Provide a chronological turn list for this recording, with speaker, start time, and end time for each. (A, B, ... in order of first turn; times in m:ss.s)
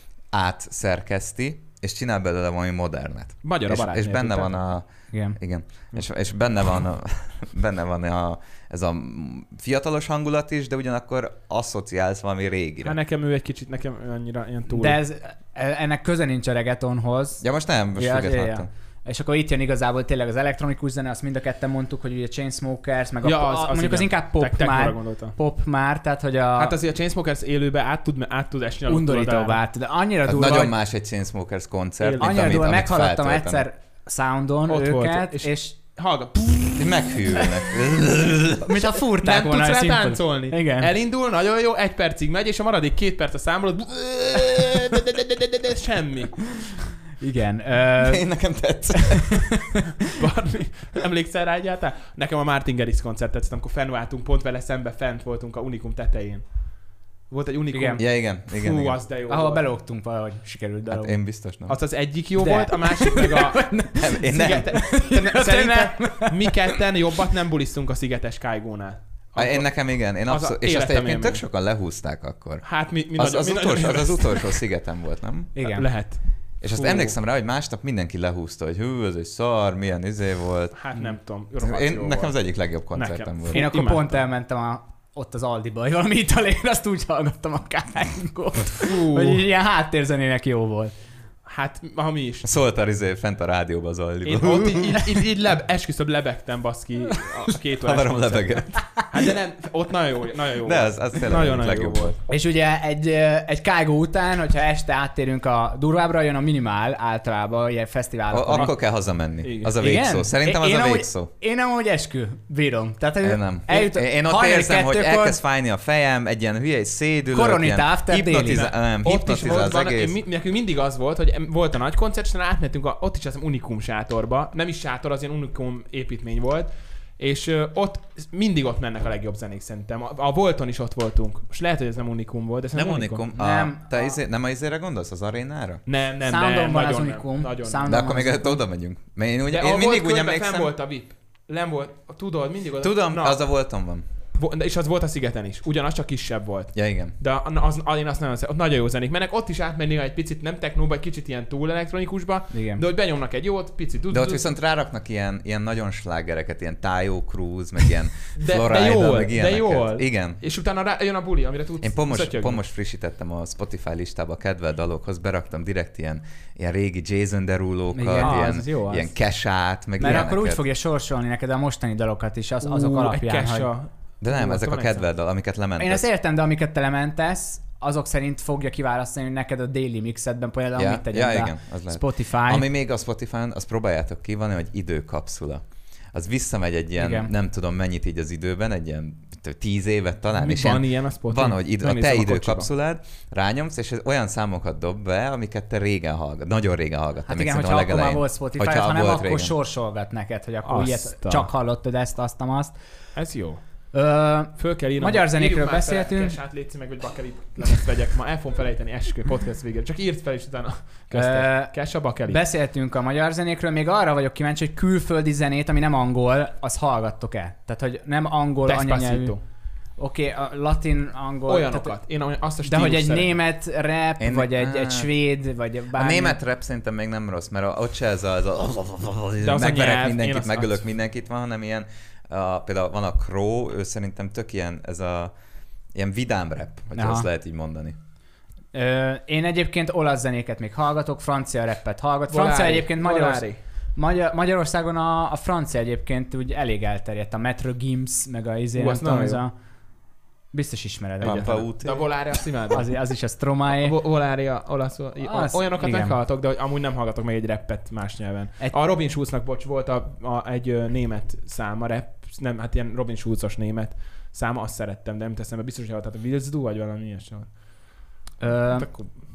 0:00.3-0:13.0 A
0:03.4-0:04.5 B
0:05.1-0:05.4 C
0:12.8-0:15.0 B
0:14.7-0:17.4 C
0:17.4-0:18.7 A
0:18.0-0:26.8 C
0:23.2-0:25.4 B
0:26.6-0:29.6 B
0:28.9-0:30.7 C
0:30.3-0:33.6 A
0:32.0-0:32.6 B
0:32.2-0:35.8 C
0:34.7-0:37.7 B
0:36.8-0:38.8 A
0:38.6-0:40.9 C
0:39.2-0:46.5 B
0:47.2-0:48.3 C
0:48.0-0:49.5 A
0:48.9-0:49.8 C
0:50.1-0:59.6 B
0:57.7-0:58.0 C
0:58.0-0:59.0 A
0:59.3-1:01.2 C
1:00.9-1:01.8 A
1:01.7-1:11.4 B
1:02.4-1:06.8 C
1:04.0-1:04.7 A
1:09.4-1:15.6 A
1:12.6-1:14.6 B
1:15.6-1:15.9 C
1:15.6-1:17.2 B
1:16.6-1:20.8 A
1:20.8-1:22.4 B
1:21.6-1:23.6 A
1:22.9-1:24.2 B
1:23.5-1:30.9 C
1:28.8-1:29.4 B
1:31.4-1:32.5 B
1:32.4-1:35.0 A
1:34.2-1:42.2 B
1:37.8-1:38.8 A
1:38.8-1:39.1 C
1:40.6-1:42.2 A
1:42.3-1:48.7 C
1:48.3-1:51.3 A
1:49.4-1:49.8 B
1:49.8-1:55.4 C
1:53.2-2:00.2 A
1:57.3-1:58.7 C
1:58.5-2:13.2 B
2:12.7-2:15.8 A
2:13.4-2:14.2 C
2:15.9-2:17.9 B
2:16.3-2:18.6 C
2:17.9-2:20.7 A
2:19.5-2:23.4 B
2:22.8-2:24.0 A
2:24.3-2:34.5 B
2:26.8-2:27.1 A
2:32.5-2:32.8 C
2:34.1-2:40.4 A
2:38.4-2:42.6 B
2:41.8-2:50.6 A
2:47.9-2:48.5 C
2:48.2-2:49.1 B
2:50.0-2:53.7 C
2:52.6-2:55.0 B
2:54.2-2:56.1 A
2:55.8-3:02.7 C
3:00.8-3:19.5 A
3:07.0-3:07.3 C
3:10.4-3:12.7 B
3:17.3-3:22.8 C
3:20.6-3:21.5 B
3:23.2-3:23.6 B
3:23.9-3:26.4 C
3:24.6-3:32.4 B
3:31.1-3:31.7 C
3:32.2-3:39.4 C
3:38.6-3:39.4 B
3:40.0-3:42.0 C
3:41.5-3:43.4 B
3:42.6-3:46.4 C
3:44.2-3:45.1 A
3:45.9-3:55.3 A
3:49.4-3:50.8 B
3:55.9-3:58.0 A
3:56.9-3:57.3 C
3:58.7-4:09.5 C
4:02.3-4:03.6 B
4:08.8-4:09.4 B
4:10.5-4:11.7 C
4:11.2-4:12.1 A
4:11.2-4:12.9 B
4:12.7-4:14.0 C
4:13.7-4:27.6 B
4:15.2-4:16.2 C
4:28.4-4:28.9 C
4:28.7-4:29.1 B